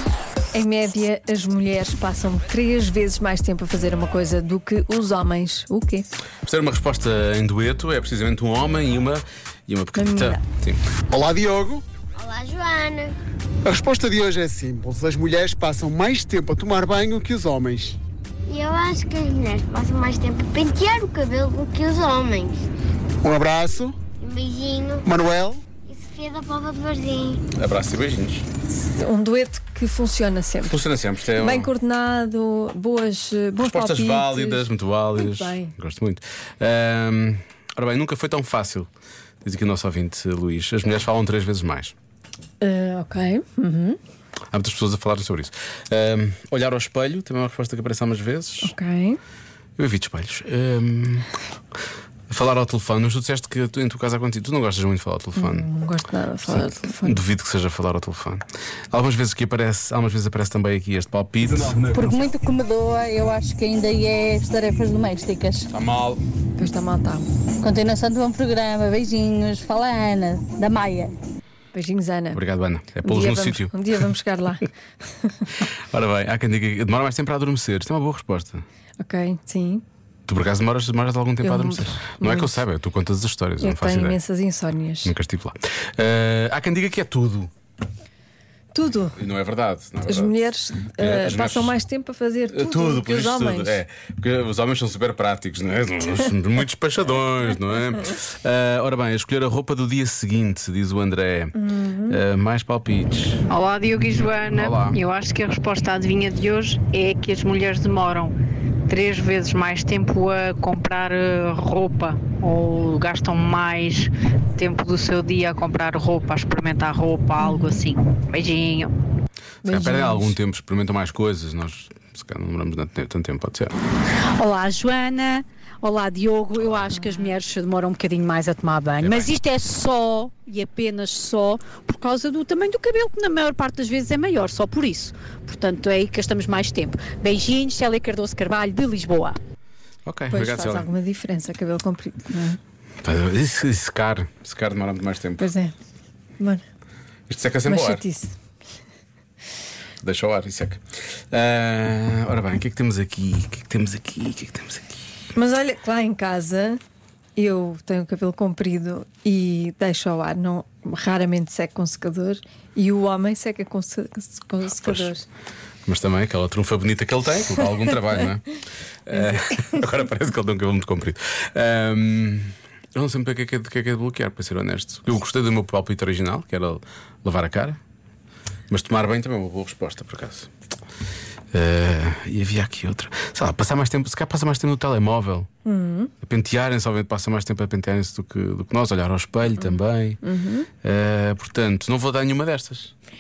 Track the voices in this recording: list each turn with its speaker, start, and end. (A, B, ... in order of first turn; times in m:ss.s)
0:00.5-0:06.1 A
0:06.4-0:10.8 B
0:10.0-0:10.4 A
0:11.1-0:11.8 C
0:12.2-0:13.2 D
0:13.6-0:18.0 C
0:18.5-0:22.7 D
0:23.2-0:24.0 C
0:24.2-0:25.1 D
0:25.0-0:25.7 C
0:25.8-0:27.4 D
0:27.5-0:28.4 B
0:28.8-0:30.8 A
0:30.6-0:31.7 B
0:31.3-0:35.7 A
0:33.6-0:38.9 B
0:39.4-0:42.0 B
0:42.6-0:44.0 A
0:44.5-0:48.7 B
0:48.6-0:49.2 A
0:49.8-0:51.3 B
0:52.3-0:55.7 B
0:55.4-0:57.2 A
0:56.4-1:02.3 B
1:01.7-1:05.7 E
1:05.7-1:06.2 B
1:06.6-1:07.3 A
1:07.6-1:11.2 E
1:11.7-1:12.4 A
1:12.3-1:13.8 B
1:13.0-1:15.4 A
1:15.6-1:18.6 B
1:19.0-1:19.8 A
1:20.3-1:24.2 B
1:21.4-1:22.6 A
1:23.6-1:25.2 A
1:25.0-1:27.5 B
1:28.7-1:29.2 A
1:29.2-1:30.3 B
1:30.1-1:33.8 A
1:31.0-1:31.8 B
1:32.5-1:43.4 B
1:41.6-1:42.2 A
1:43.5-1:48.3 F
1:44.4-1:45.0 B
1:48.9-1:58.9 F
1:57.4-1:57.8 A
1:59.6-2:00.4 A
1:59.7-2:03.7 B
2:04.4-2:19.4 G
2:06.9-2:07.3 A
2:09.0-2:09.3 B
2:20.1-2:20.9 B
2:20.3-2:22.6 A
2:23.0-2:25.5 B
2:25.4-2:25.8 A
2:27.3-2:28.0 B
2:27.6-2:28.3 A
2:30.0-2:30.8 B
2:31.3-2:35.0 B
2:35.4-2:36.8 A
2:37.4-2:45.3 A
2:44.8-2:45.1 B
2:45.9-2:57.8 B
2:58.7-3:00.5 B
3:01.5-3:05.5 B
3:05.6-3:06.1 A
3:06.2-3:10.2 B
3:09.6-3:10.7 A
3:10.8-3:12.9 B